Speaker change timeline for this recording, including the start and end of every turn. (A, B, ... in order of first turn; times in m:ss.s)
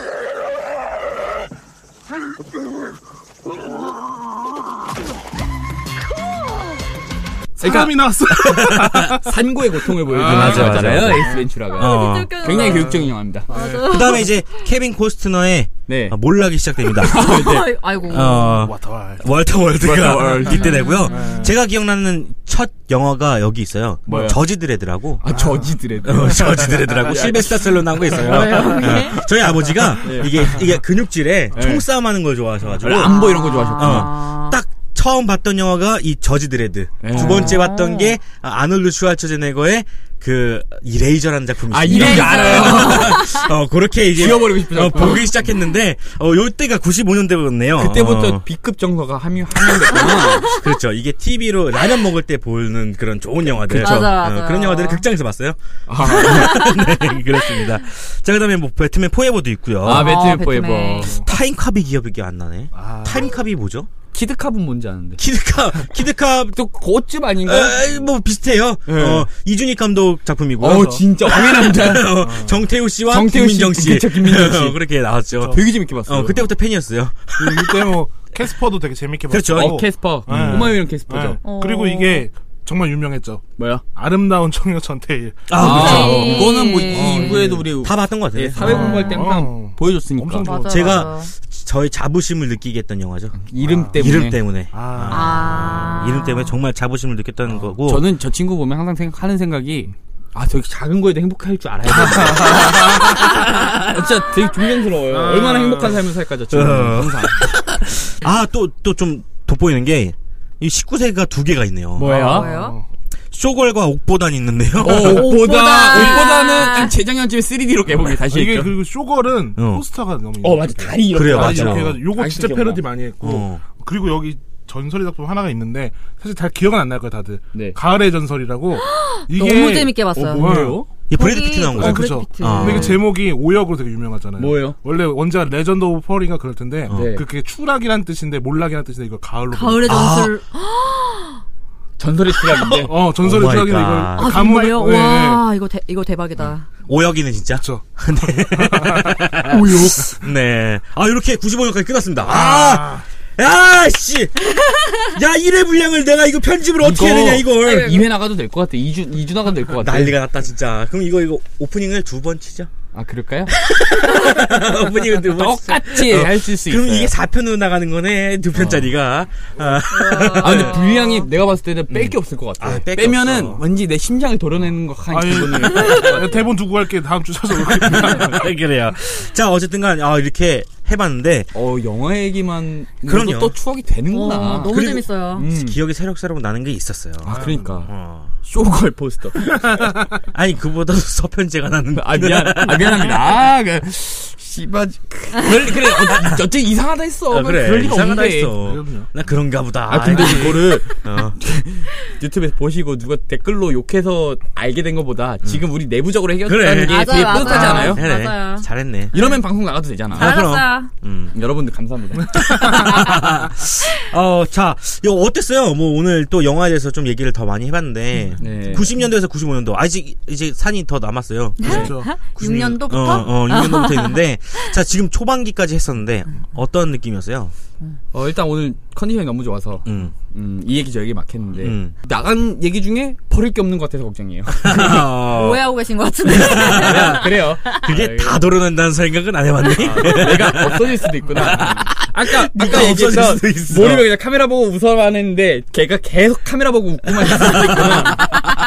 0:07.6-0:09.4 A
0:07.6-0:08.1 B
0:08.4-0:09.1 C
0:09.2-0:13.5 B
0:10.0-0:11.5 A
0:10.1-0:12.4 C
0:11.7-0:14.3 D
0:12.5-0:14.0 A
0:13.8-0:25.2 C
0:15.9-0:16.2 B
0:17.0-0:17.7 B
0:17.0-0:18.6 D
0:18.2-0:19.3 A
0:19.8-0:20.8 B
0:20.5-0:21.5 D
0:21.1-0:21.5 A
0:24.1-0:24.4 B
0:25.2-0:28.9 B
0:25.3-0:26.7 A
0:26.0-0:33.2 C
0:28.1-0:29.3 D
0:30.0-0:30.6 B
0:31.5-0:31.9 B
0:32.8-0:34.1 B
0:33.0-0:34.6 D
0:33.8-0:48.4 C
0:37.0-0:37.6 B
0:37.1-0:38.2 D
0:41.7-0:43.2 B
0:41.9-0:43.5 D
0:44.1-0:45.2 B
0:47.8-0:50.5 B
0:49.9-0:50.7 D
0:50.4-1:00.4 C
0:53.7-0:54.0 B
0:53.7-0:55.0 D
0:55.9-0:56.6 B
0:56.2-0:56.9 D
0:59.8-1:01.2 B
0:59.9-1:01.2 D
1:01.2-1:03.9 C
1:02.7-1:03.3 A
1:04.1-1:05.2 B
1:05.2-1:06.6 C
1:06.5-1:08.1 B
1:07.4-1:18.0 C
1:08.8-1:09.3 B
1:10.6-1:12.3 B
1:10.6-1:11.0 A
1:12.2-1:12.6 A
1:13.0-1:14.8 B
1:15.4-1:16.5 B
1:17.4-1:25.7 A
1:19.3-1:20.7 C
1:19.5-1:21.4 B
1:21.4-1:22.3 D
1:23.6-1:23.8 B
1:25.5-1:29.0 C
1:25.6-1:30.6 B
1:25.6-1:27.6 D
1:26.9-1:27.6 A
1:28.4-1:31.1 A
1:28.8-1:29.2 D
1:30.4-1:31.3 D
1:30.5-1:38.1 C
1:33.3-1:34.4 B
1:33.6-1:34.2 A
1:34.7-1:35.4 A
1:35.1-1:36.5 D
1:37.8-1:43.1 B
1:41.9-1:43.3 A
1:43.8-1:47.5 B
1:45.1-1:46.0 A
1:46.5-1:52.4 C
1:52.0-1:52.5 B
1:52.0-1:52.8 A
1:52.2-1:52.8 D
1:53.3-1:55.3 C
1:54.8-1:58.8 B
1:54.9-1:56.6 A
1:55.0-1:57.0 D
1:57.9-2:10.8 A
1:59.6-1:59.8 C
2:00.4-2:02.8 B
2:01.1-2:02.0 C
2:03.2-2:03.6 C
2:08.8-2:13.0 D
2:10.1-2:10.9 B
2:11.1-2:13.0 C
2:11.7-2:20.1 A
2:14.4-2:14.8 B
2:16.9-2:17.2 B
2:19.5-2:21.4 D
2:19.8-2:20.3 C
2:22.0-2:22.9 B
2:22.7-2:25.4 A
2:23.2-2:24.4 C
2:24.1-2:26.7 D
2:26.8-2:38.1 C
2:27.6-2:29.3 A
2:29.5-2:30.2 B
2:32.2-2:33.0 A
2:36.8-2:40.2 B
2:37.6-2:38.0 D
2:39.7-2:42.7 C
2:42.9-2:43.6 B
2:43.5-2:50.8 C
2:45.3-2:47.1 B
2:48.5-2:48.9 B
2:49.9-2:51.3 D
2:50.4-2:56.5 B
2:51.9-2:53.6 C
2:55.1-2:58.5 A
2:57.8-3:01.5 C
3:01.5-3:05.8 B
3:03.0-3:03.6 C
3:04.1-3:05.5 D
3:04.7-3:08.3 C
3:07.2-3:07.9 B
3:07.3-3:07.7 A
3:08.4-3:09.6 B
3:09.6-3:09.9 A
3:10.2-3:13.2 C
3:11.9-3:18.6 B
3:17.3-3:21.4 C
3:18.6-3:19.1 A
3:19.8-3:28.0 B
3:20.1-3:20.6 A
3:26.4-3:29.2 C
3:26.7-3:29.5 D
3:29.1-3:30.5 B
3:30.1-3:30.9 D
3:30.1-3:31.3 C
3:31.3-3:32.8 B
3:32.3-3:47.5 C
3:38.4-3:38.9 B
3:41.6-3:44.2 D
3:41.6-3:42.1 A
3:48.1-3:55.0 B
3:49.8-3:50.1 C
3:51.6-3:51.9 C
3:54.6-3:55.7 C
3:55.2-3:58.0 D
3:56.2-4:04.1 C
3:56.5-3:58.5 B
3:59.6-4:08.2 B
4:07.2-4:08.4 C